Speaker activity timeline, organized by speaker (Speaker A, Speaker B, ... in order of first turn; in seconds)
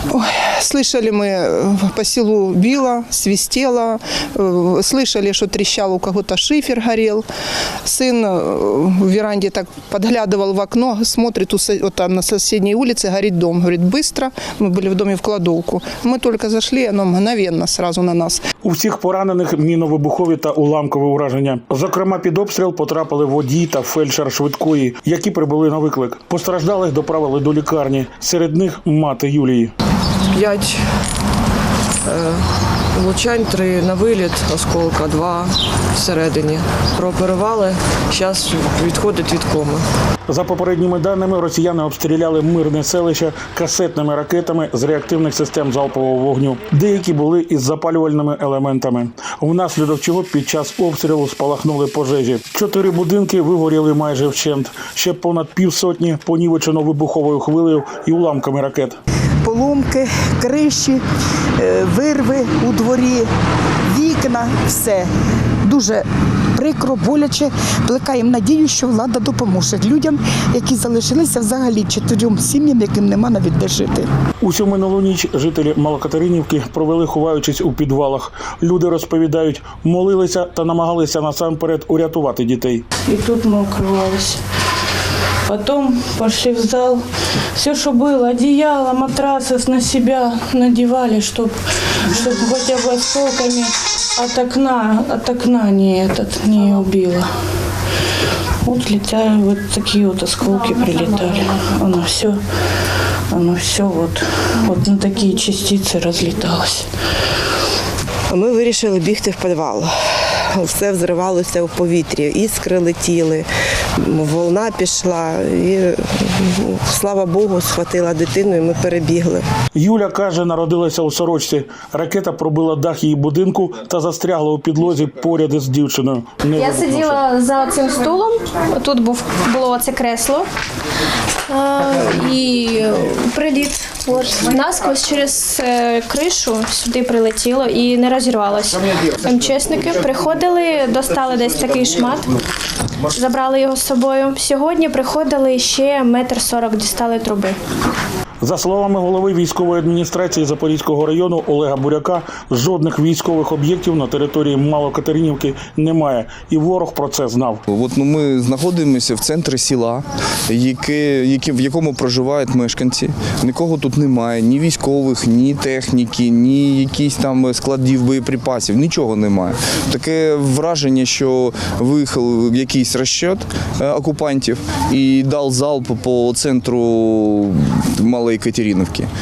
Speaker A: 0.1-7.2, 7.8-18.4
Speaker B: 18.6-29.7, 40.3-59.0, 74.4-82.8, 119.8-127.1, 148.4-157.6
Speaker C: 30.3-30.8, 32.1-32.4, 33.0-39.8
Speaker D: 59.4-61.0, 61.6-63.3, 63.9-65.1, 65.6-66.0, 66.5-74.1
Speaker E: 83.1-84.4, 85.5-87.0, 87.5-97.3, 98.6-102.4, 103.3-106.9
Speaker F: 108.3-113.5, 114.0-119.5
Speaker G: 126.5-130.5, 131.5-142.3, 143.1-147.6
Speaker H: 157.7-179.1